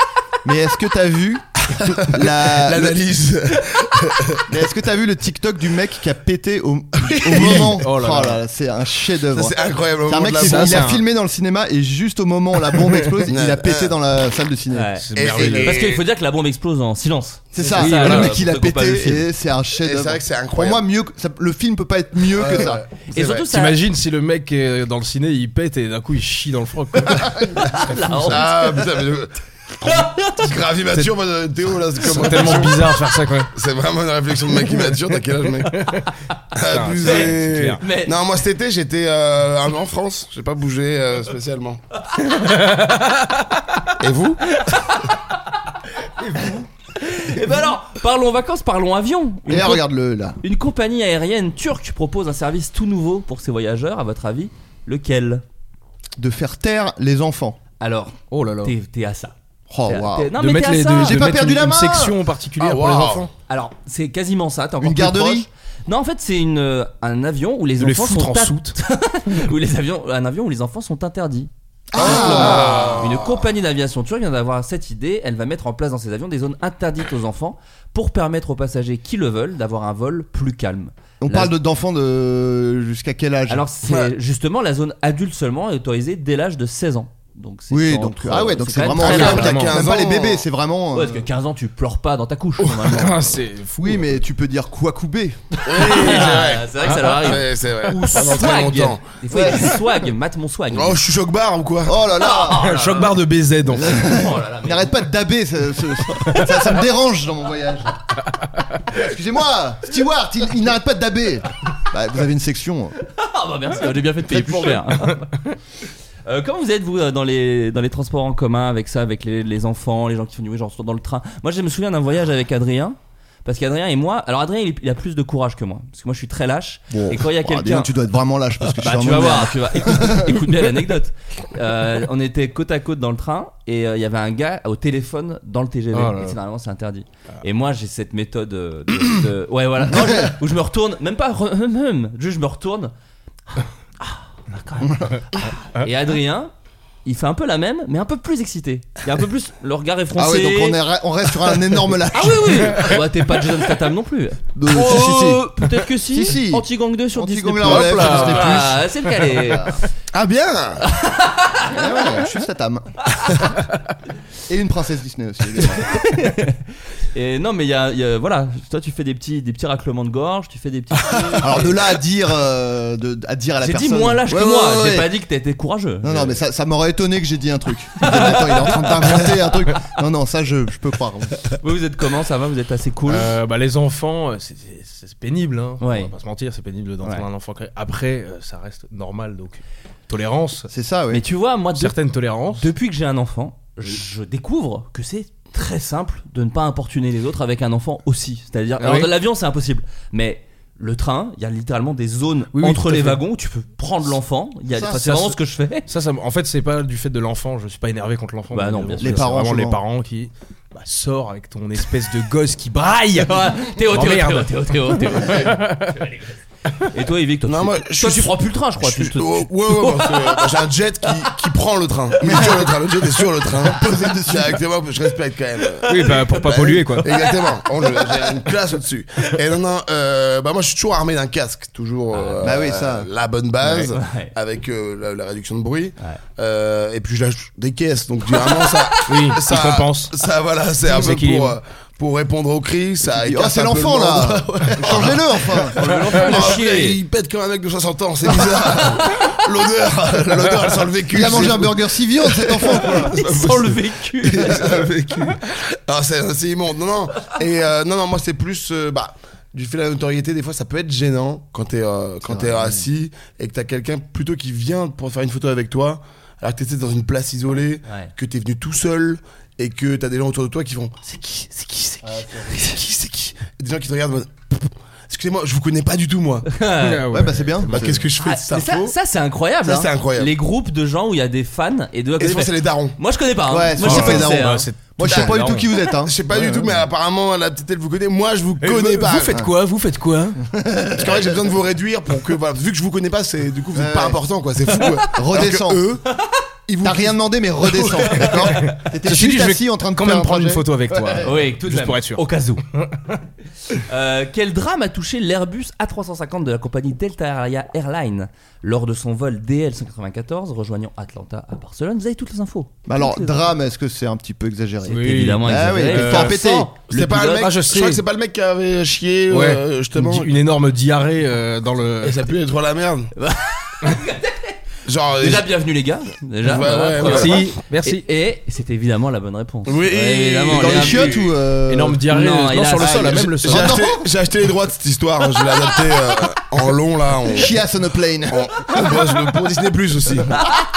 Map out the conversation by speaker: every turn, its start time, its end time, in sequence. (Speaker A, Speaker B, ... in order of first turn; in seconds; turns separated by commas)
Speaker A: 0.4-1.4, Speaker B: 1.7-4.5, Speaker A: 2.0-3.0, Speaker A: 4.5-15.7, Speaker B: 7.0-7.8, Speaker C: 7.3-8.4, Speaker B: 9.3-10.9, Speaker C: 10.4-11.0, Speaker C: 12.7-13.1, Speaker B: 13.3-13.9, Speaker D: 14.7-19.3, Speaker C: 15.0-15.8, Speaker B: 15.2-16.0, Speaker A: 17.5-22.8, Speaker C: 17.8-18.4, Speaker B: 19.8-20.8, Speaker B: 22.3-23.5, Speaker D: 23.1-23.8, Speaker C: 23.5-28.4, Speaker D: 27.7-28.7, Speaker B: 28.3-33.0, Speaker D: 29.9-30.5, Speaker C: 32.0-33.5, Speaker B: 33.5-36.0, Speaker C: 34.6-35.0, Speaker C: 35.6-36.0, Speaker B: 36.5-41.8, Speaker C: 36.7-37.8, Speaker D: 37.0-38.1, Speaker C: 42.2-43.5, Speaker B: 44.0-44.4, Speaker D: 44.6-45.1, Speaker C: 46.2-46.6, Speaker D: 47.0-49.8, Speaker A: 49.5-50.4, Speaker D: 50.4-55.4, Speaker A: 56.2-57.6, Speaker D: 57.8-59.3, Speaker C: 58.3-58.7, Speaker A: 59.7-60.3, Speaker D: 59.9-61.2, Speaker C: 60.4-63.3, Speaker A: 61.0-62.1, Speaker B: 62.6-63.3, Speaker D: 63.5-81.5, Speaker A: 64.8-65.5, Speaker C: 67.8-68.8, Speaker A: 71.9-73.0, Speaker B: 72.0-73.5, Speaker A: 81.2-83.6, Speaker D: 83.5-89.5, Speaker B: 83.9-84.1, Speaker A: 87.7-91.3, Speaker B: 89.0-90.4, Speaker C: 89.0-89.8, Speaker D: 90.9-93.4, Speaker B: 92.7-93.0, Speaker C: 92.9-94.1, Speaker A: 93.8-95.4, Speaker D: 95.5-101.0, Speaker B: 95.7-99.0, Speaker C: 96.1-97.1, Speaker A: 99.3-99.7, Speaker B: 100.7-102.0, Speaker A: 101.8-102.7, Speaker D: 102.2-103.1, Speaker C: 102.5-104.2, Speaker A: 103.7-108.1, Speaker D: 103.9-104.9, Speaker A: 108.9-113.0, Speaker D: 113.1-115.3, Speaker C: 114.3-115.2, Speaker A: 114.3-114.8, Speaker D: 116.2-127.9, Speaker A: 126.9-130.4, Speaker D: 128.7-142.9, Speaker C: 135.9-136.4, Speaker A: 139.9-140.3, Speaker D: 144.0-145.1, Speaker A: 144.8-145.2, Speaker D: 145.7-146.5, Speaker D: 147.0-150.8, Speaker A: 150.2-152.8, Speaker D: 152.1-159.8, Speaker A: 154.5-159.7, Speaker C: 157.7-158.4, Speaker B: 160.1-160.9, Speaker D: 160.8-162.2, Speaker A: 161.7-163.1, Speaker A: 164.5-166.1, Speaker D: 165.6-171.8, Speaker A: 171.4-175.1, Speaker D: 173.6-176.3, Speaker A: 176.0-181.5, Speaker D: 181.6-183.3, Speaker C: 183.1-190.7, Speaker D: 185.8-186.1, Speaker A: 190.7-191.2, Speaker D: 191.1-191.9, Speaker C: 191.8-192.7, Speaker D: 192.5-205.8, Speaker C: 198.8-199.1, Speaker C: 202.5-203.2, Speaker A: 204.7-205.4, Speaker C: 205.9-216.2, Speaker D: 208.5-209.3, Speaker A: 209.0-209.8, Speaker D: 213.2-215.5, Speaker D: 216.9-220.1, Speaker B: 217.4-245.5, Speaker A: 222.2-222.7, Speaker A: 223.5-224.6, Speaker C: 225.9-227.1, Speaker D: 227.1-228.3, Speaker D: 232.1-232.4, Speaker A: 232.4-233.1, Speaker D: 233.6-234.3, Speaker C: 239.1-240.2, Speaker C: 240.8-241.6, Speaker A: 243.1-245.9, Speaker D: 245.6-247.0, Speaker B: 246.1-271.0, Speaker D: 248.6-249.3, Speaker A: 251.1-253.2, Speaker D: 253.0-254.7, Speaker A: 262.2-262.8, Speaker D: 267.9-268.1, Speaker D: 271.0-273.3, Speaker B: 273.4-276.5, Speaker D: 276.5-277.0, Speaker C: 276.8-278.0, Speaker A: 277.1-278.1, Speaker B: 277.7-278.9, Speaker D: 278.2-284.7, Speaker B: 279.6-280.3, Speaker B: 282.2-282.9, Speaker A: 283.5-286.8, Speaker C: 283.8-285.7, Speaker B: 285.1-289.4, Speaker C: 288.6-290.4, Speaker A: 290.4-291.4, Speaker B: 290.9-296.0, Speaker A: 293.7-294.2, Speaker A: 295.1-296.0, Speaker B: 296.7-298.5, Speaker A: 296.8-301.4, Speaker C: 298.3-302.2, Speaker D: 301.2-302.6, Speaker C: 302.8-303.1, Speaker D: 303.8-313.4, Speaker A: 312.9-316.7, Speaker C: 314.9-316.4, Speaker D: 314.9-317.5, Speaker B: 316.9-320.3, Speaker C: 317.4-318.0, Speaker C: 319.3-322.2, Speaker B: 322.0-323.1, Speaker D: 323.1-324.6, Speaker B: 324.9-325.5, Speaker D: 325.2-331.1, Speaker B: 326.4-327.4, Speaker C: 327.0-328.0, Speaker B: 329.6-331.3, Speaker A: 330.5-332.0, Speaker C: 331.7-333.8, Speaker D: 332.1-333.2, Speaker A: 332.8-334.1, Speaker B: 333.3-337.6, Speaker A: 337.3-338.6, Speaker B: 338.3-340.4